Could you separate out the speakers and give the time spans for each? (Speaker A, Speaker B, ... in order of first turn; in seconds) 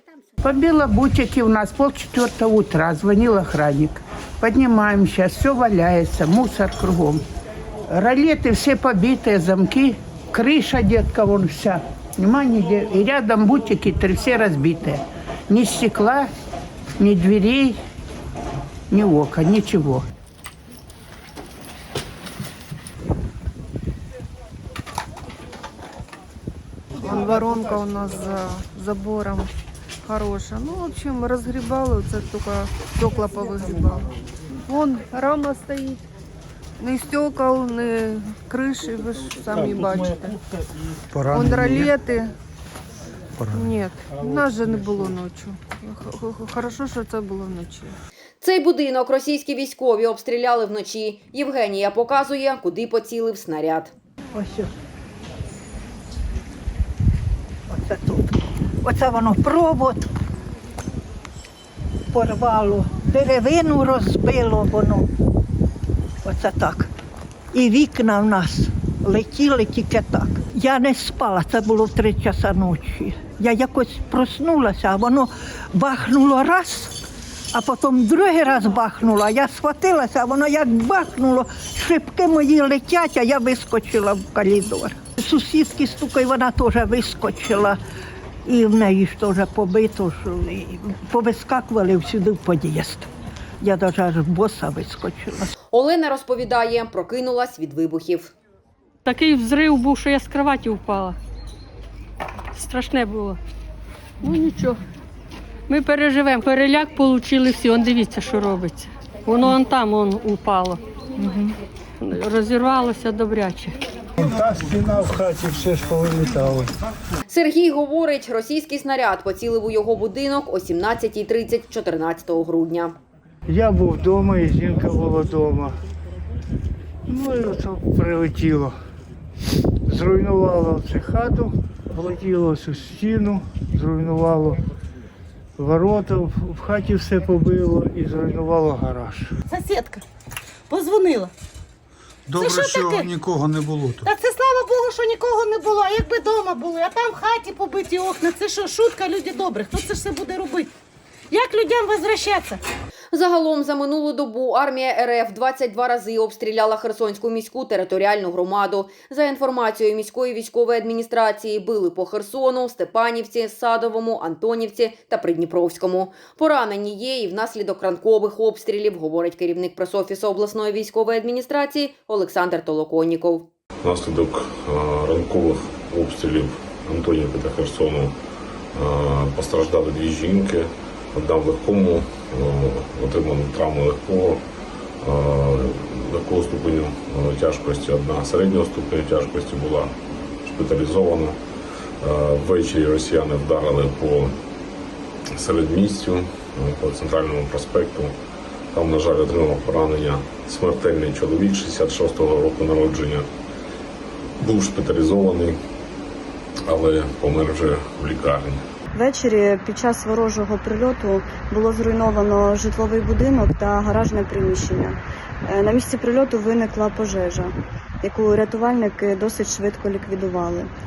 Speaker A: 0.4-7.2, 7.9-16.3, 17.0-17.8, 18.9-20.0
Speaker B: 27.0-29.5, 30.0-36.0, 36.8-40.4, 41.3-42.3, 43.5-48.0
Speaker C: 41.1-41.9, 43.4-43.7, 142.3-144.1
Speaker D: 48.4-53.9, 95.7-98.3, 117.3-123.0, 153.1-173.5
Speaker E: 54.3-54.7, 57.7-60.1, 62.1-65.1, 66.2-66.9, 67.5-76.9, 77.5-87.8, 88.5-93.1, 93.6-95.5
Speaker F: 99.0-101.2, 102.5-103.4, 104.2-104.8, 105.7-111.2, 112.0-113.8
Speaker G: 114.2-116.7, 123.5-125.7, 127.1-128.7, 129.9-134.6, 135.6-139.3
Speaker H: 139.5-140.0, 140.7-141.3, 142.3-143.2, 144.0-150.7, 151.3-152.6
Speaker I: 173.8-178.2, 178.8-184.4, 185.0-189.9, 190.4-191.3, 192.0-194.3, 195.4-198.1, 198.7-203.3, 204.4-205.6, 206.7-208.6
Speaker J: 208.9-217.5, 218.0-220.7